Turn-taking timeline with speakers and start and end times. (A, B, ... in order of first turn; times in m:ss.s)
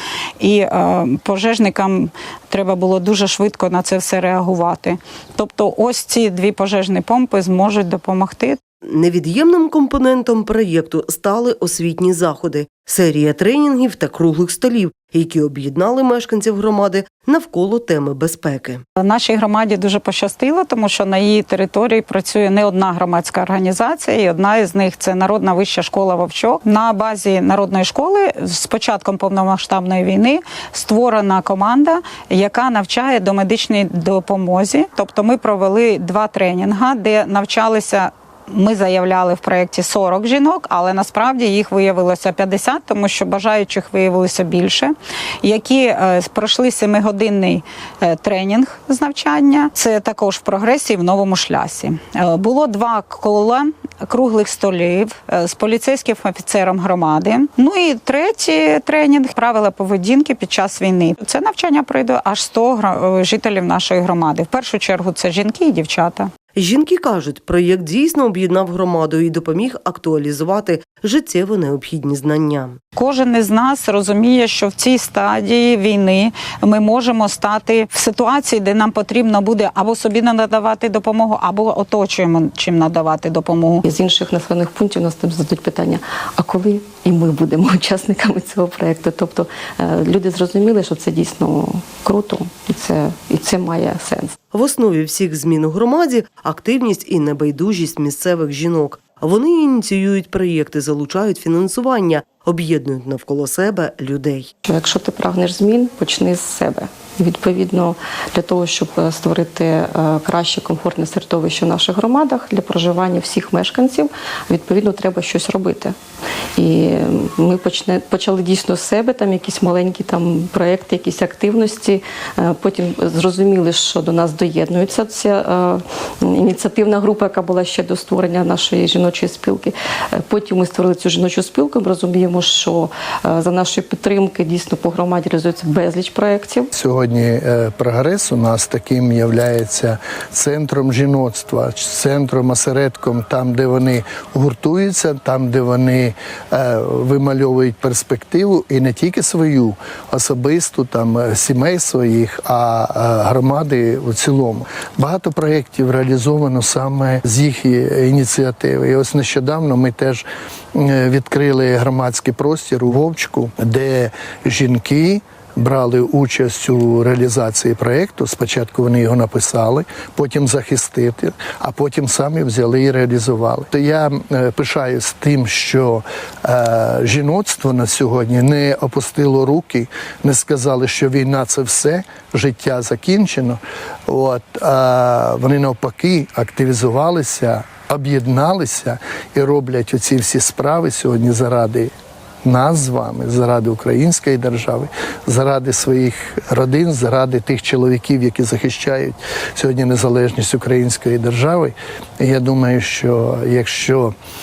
0:00.4-0:08.6 A
0:08.8-0:18.8 B
0:19.0-1:06.3 A
1:06.5-1:12.8 B
1:13.0-1:23.8 A
1:23.8-1:34.4 C
1:34.5-1:44.5 B
1:44.7-1:56.0 C
1:56.6-2:16.7 C
2:16.7-3:11.9 D
3:12.4-3:24.2 D